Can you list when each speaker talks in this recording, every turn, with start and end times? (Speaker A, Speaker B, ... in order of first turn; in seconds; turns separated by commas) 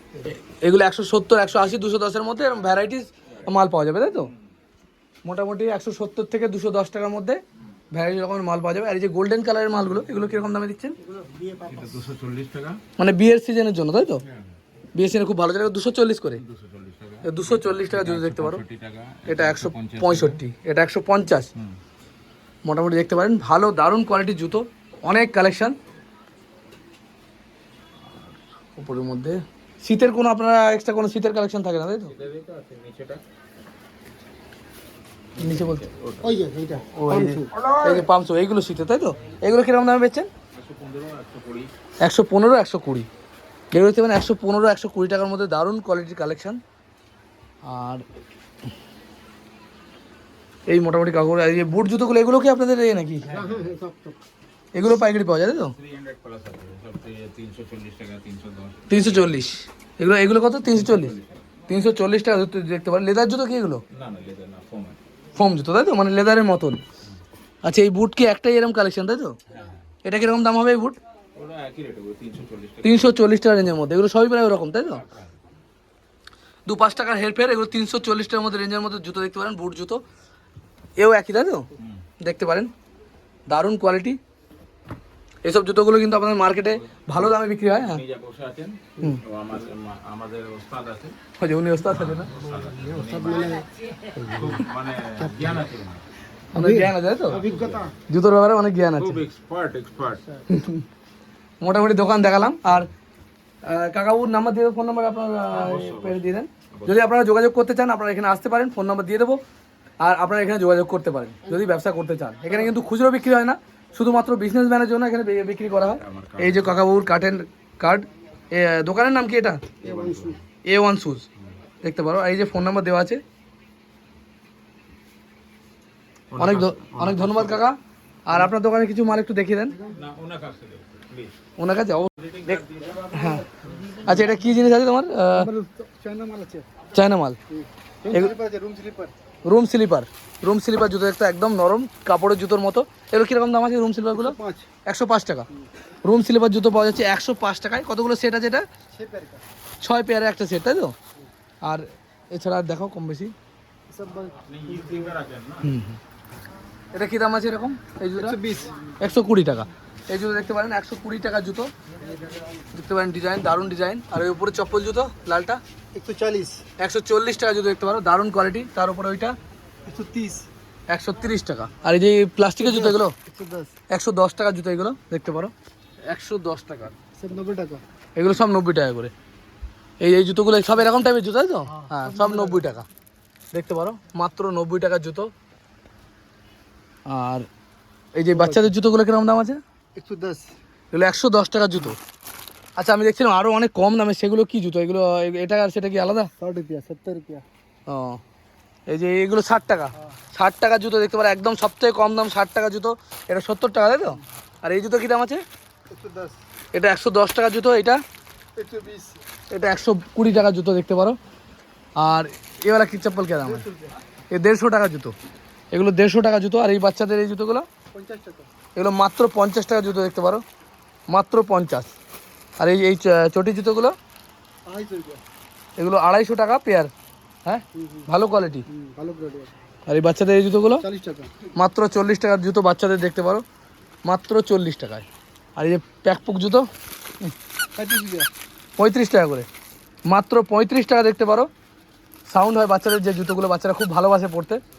Speaker A: 0.2-4.3, Speaker A: 5.3-7.4, Speaker A: 7.9-11.0, Speaker B: 11.0-11.9, Speaker C: 11.6-12.8, Speaker A: 13.0-14.2, Speaker C: 14.3-14.5, Speaker A: 14.9-16.4, Speaker C: 16.4-20.4, Speaker A: 17.2-18.6, Speaker A: 19.3-21.5, Speaker A: 22.6-25.8, Speaker A: 28.8-32.1, Speaker C: 32.1-33.2, Speaker C: 35.4-36.8, Speaker A: 35.4-35.8, Speaker B: 36.2-37.5, Speaker A: 37.0-40.3, Speaker C: 37.5-38.1, Speaker C: 40.5-41.7, Speaker A: 42.0-43.1, Speaker A: 43.7-46.6, Speaker A: 47.6-48.0, Speaker A: 50.7-53.3, Speaker C: 53.2-53.8, Speaker B: 53.3-54.2, Speaker A: 54.7-55.7, Speaker C: 55.7-59.4, Speaker A: 58.9-61.2, Speaker C: 60.7-61.5, Speaker A: 61.7-63.8, Speaker C: 63.9-65.0, Speaker A: 65.3-66.8, Speaker A: 67.7-69.3, Speaker C: 69.5-69.8, Speaker A: 70.0-71.0, Speaker C: 71.3-73.2, Speaker A: 72.8-75.0, Speaker C: 74.9-75.4, Speaker A: 76.7-80.0, Speaker A: 81.0-81.7, Speaker C: 81.8-82.0, Speaker A: 82.2-82.7, Speaker A: 83.5-84.2, Speaker A: 85.4-88.0, Speaker C: 87.0-91.2, Speaker A: 91.4-92.3, Speaker C: 91.9-93.6, Speaker B: 92.6-94.5, Speaker C: 94.1-96.0, Speaker A: 96.5-97.4, Speaker B: 96.5-97.9, Speaker C: 97.3-97.9, Speaker A: 98.1-99.2, Speaker C: 99.0-100.3, Speaker A: 100.5-100.8, Speaker A: 101.6-102.9, Speaker A: 103.7-109.4, Speaker C: 105.5-107.1, Speaker A: 110.0-119.6, Speaker C: 115.9-116.8, Speaker C: 119.8-120.4, Speaker B: 119.8-120.4, Speaker A: 120.7-121.2, Speaker A: 121.8-123.2, Speaker C: 126.3-127.6, Speaker A: 126.4-129.8, Speaker C: 129.9-131.4, Speaker A: 131.6-133.4, Speaker C: 132.2-133.4, Speaker A: 134.0-135.5, Speaker B: 135.3-136.7, Speaker A: 136.9-137.4, Speaker B: 137.5-139.1, Speaker A: 139.5-145.5, Speaker B: 144.1-144.7, Speaker A: 146.1-148.6, Speaker B: 148.9-149.4, Speaker A: 149.8-150.9, Speaker A: 151.7-153.3, Speaker B: 153.9-154.9, Speaker C: 154.4-155.8, Speaker A: 155.6-156.0, Speaker A: 156.9-158.4, Speaker B: 158.2-158.8, Speaker A: 159.0-161.7, Speaker A: 162.7-165.6, Speaker B: 165.9-166.7, Speaker A: 166.8-169.3, Speaker B: 169.9-170.5, Speaker A: 170.9-173.1, Speaker B: 172.6-173.7, Speaker A: 173.9-175.5, Speaker A: 176.1-176.9, Speaker B: 177.2-177.8, Speaker A: 178.2-179.1, Speaker A: 180.0-182.9, Speaker B: 181.7-182.7, Speaker A: 183.5-185.3, Speaker A: 187.1-187.5, Speaker A: 188.2-189.6, Speaker B: 188.3-188.7, Speaker B: 190.0-190.5, Speaker A: 190.9-192.0, Speaker A: 192.8-196.3, Speaker B: 196.4-197.4, Speaker A: 197.9-198.2, Speaker A: 198.9-205.4, Speaker B: 205.9-206.4, Speaker A: 206.7-208.0, Speaker B: 208.6-209.2, Speaker A: 209.5-211.2, Speaker A: 212.0-213.7, Speaker B: 213.4-213.9, Speaker A: 214.3-215.1, Speaker A: 215.7-217.7, Speaker B: 217.9-218.5, Speaker A: 218.8-220.4, Speaker A: 221.1-221.9, Speaker A: 222.6-223.9, Speaker B: 224.7-225.2, Speaker A: 225.8-226.9, Speaker A: 227.5-228.7, Speaker B: 227.7-228.1, Speaker B: 228.7-229.5, Speaker A: 229.9-230.8, Speaker B: 230.8-231.3, Speaker A: 231.6-233.4, Speaker A: 234.1-235.1, Speaker A: 235.6-236.7, Speaker B: 237.8-238.3, Speaker A: 238.8-239.5, Speaker A: 240.1-241.5, Speaker A: 242.3-244.6